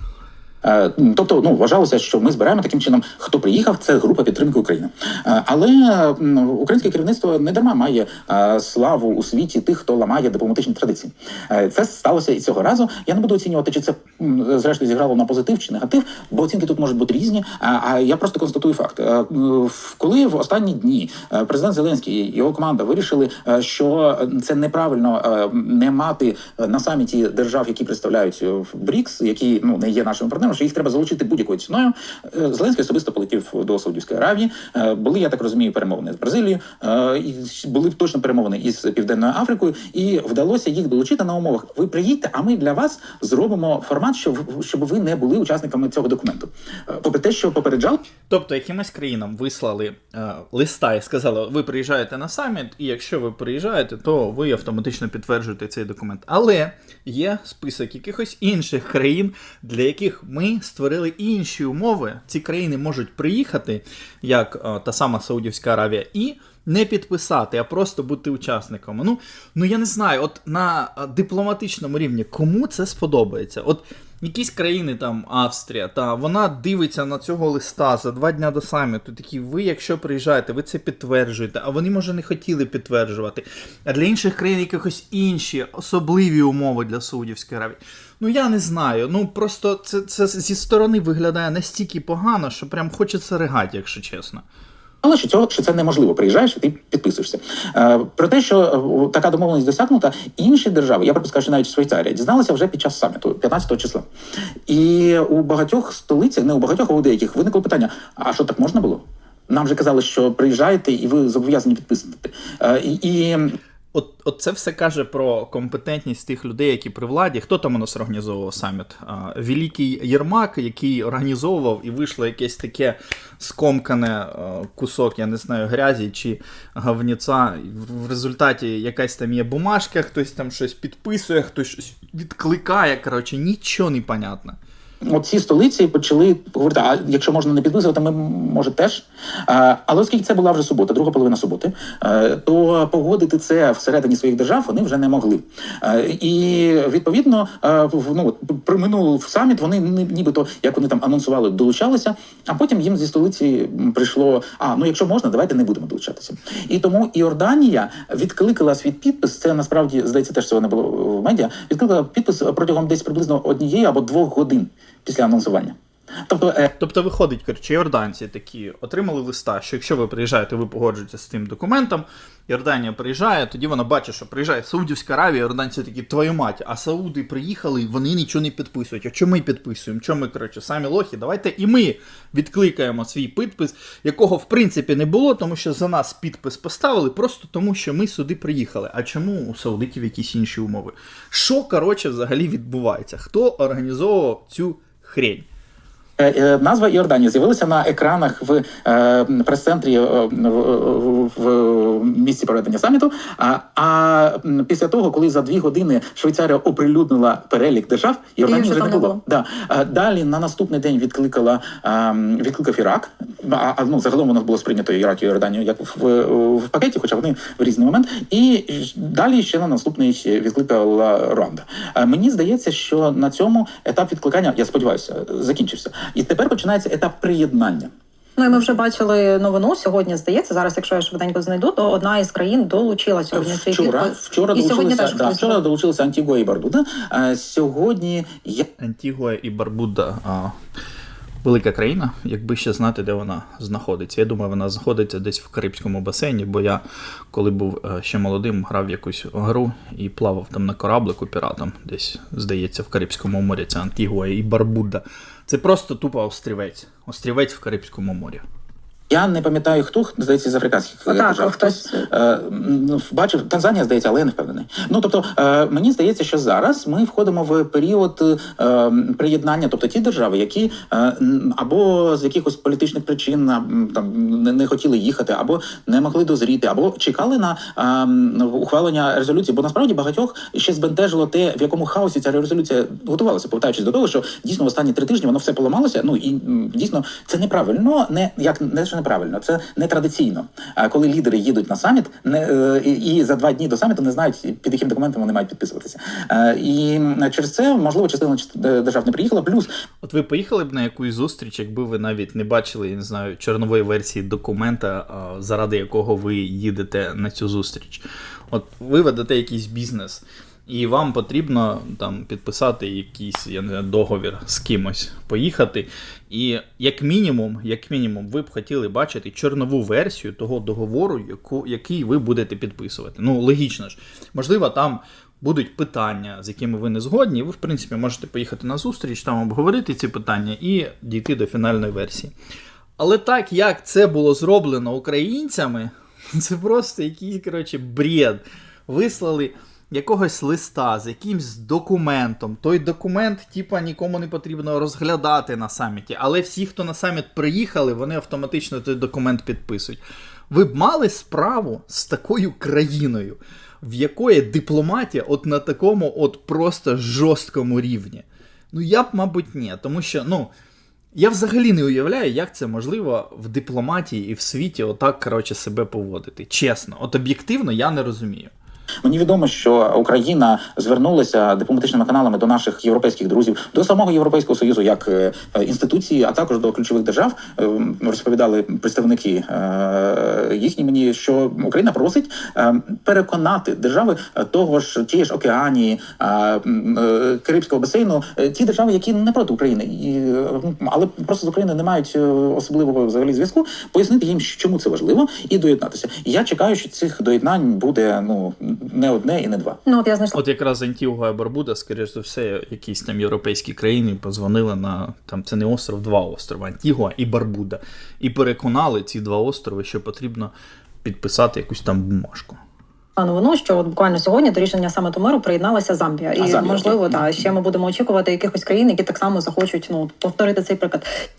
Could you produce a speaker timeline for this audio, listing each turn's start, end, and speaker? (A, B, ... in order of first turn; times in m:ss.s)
0:00.6-0:48.0 A
0:48.3-1:34.4 B
1:35.0-1:44.1 A
1:44.7-1:53.6 A
1:53.9-2:14.6 B
2:15.1-2:45.8 A
2:46.3-2:46.7 A
2:46.8-3:15.5 B
3:16.2-3:47.9 A
3:28.5-3:29.2 C
3:48.4-3:55.6 C
3:53.3-3:58.6 A
3:58.8-4:00.6 B
4:01.4-4:18.4 B
4:19.1-4:59.7 A
4:21.1-4:22.1 C
5:00.0-5:32.3 B
5:33.0-6:00.5 B
6:01.2-6:08.5 B
6:09.0-6:39.8 A
6:39.9-6:40.4 C
6:40.3-6:50.5 B
6:51.0-6:52.6 B
6:53.2-7:01.1 C
6:56.4-6:57.5 B